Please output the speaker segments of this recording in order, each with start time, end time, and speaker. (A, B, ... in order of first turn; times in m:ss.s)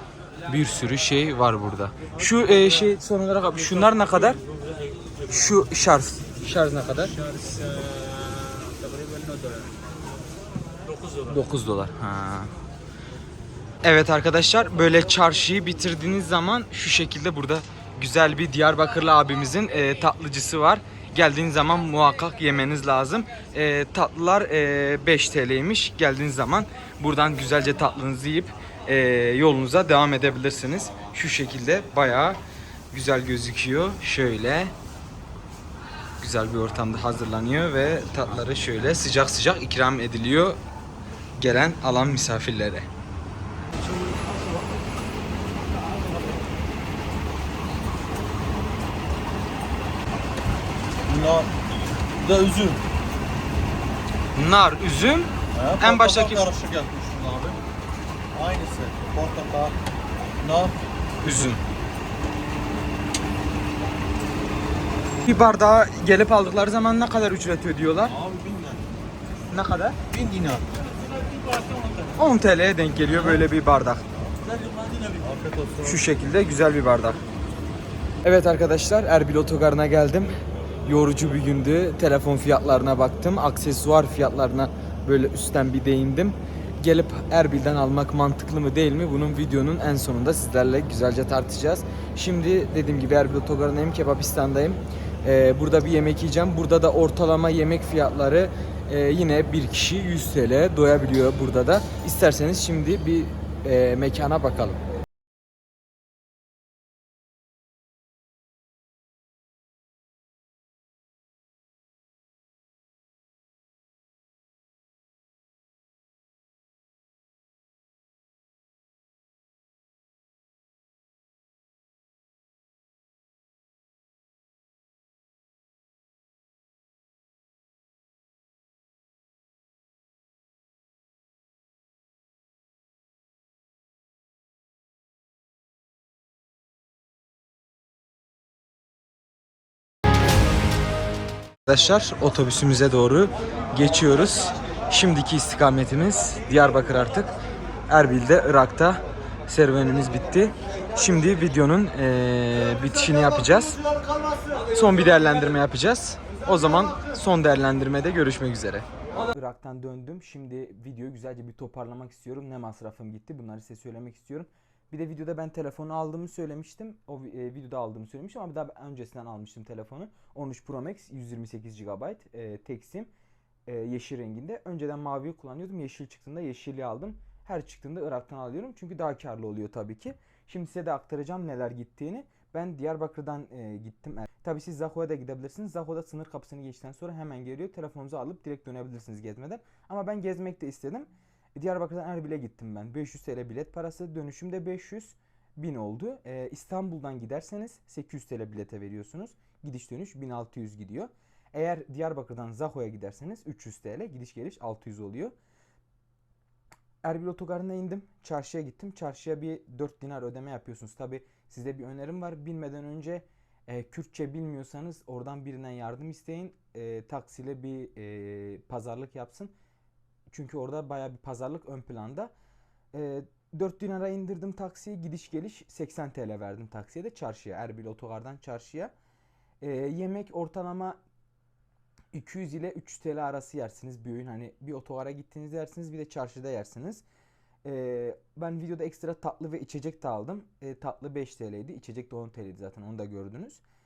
0:00.5-0:04.4 A
0:03.6-0:05.7 B
0:05.3-0:07.1 A
0:07.1-0:09.8 C
0:10.8-0:11.4 B
0:11.2-0:12.5 A
0:13.8-0:32.4 A
0:32.9-0:34.7 A
0:36.2-0:40.6 A
0:41.4-0:42.9 A
0:51.0-0:51.5 C
0:52.2-0:52.8 C
0:54.3-0:56.4 A
0:55.5-0:57.6 C
0:58.3-0:59.8 C
1:00.4-1:01.6 C
1:01.2-1:01.6 A
1:05.2-1:08.2 A
1:08.1-1:08.9 C
1:09.5-1:10.0 A
1:10.1-1:10.7 C
1:12.2-1:14.0 A
1:14.5-1:15.3 B
1:15.2-1:16.0 C
1:15.8-1:17.2 A
1:18.2-1:44.8 A
2:21.6-2:27.3 A
2:27.9-2:33.8 A
2:34.7-2:53.1 A
2:53.7-3:25.3 A
3:27.0-3:39.5 A
3:40.3-3:42.3 A
3:42.9-3:48.9 A
3:49.6-3:51.0 A
3:52.1-3:57.0 A
3:57.6-4:03.6 A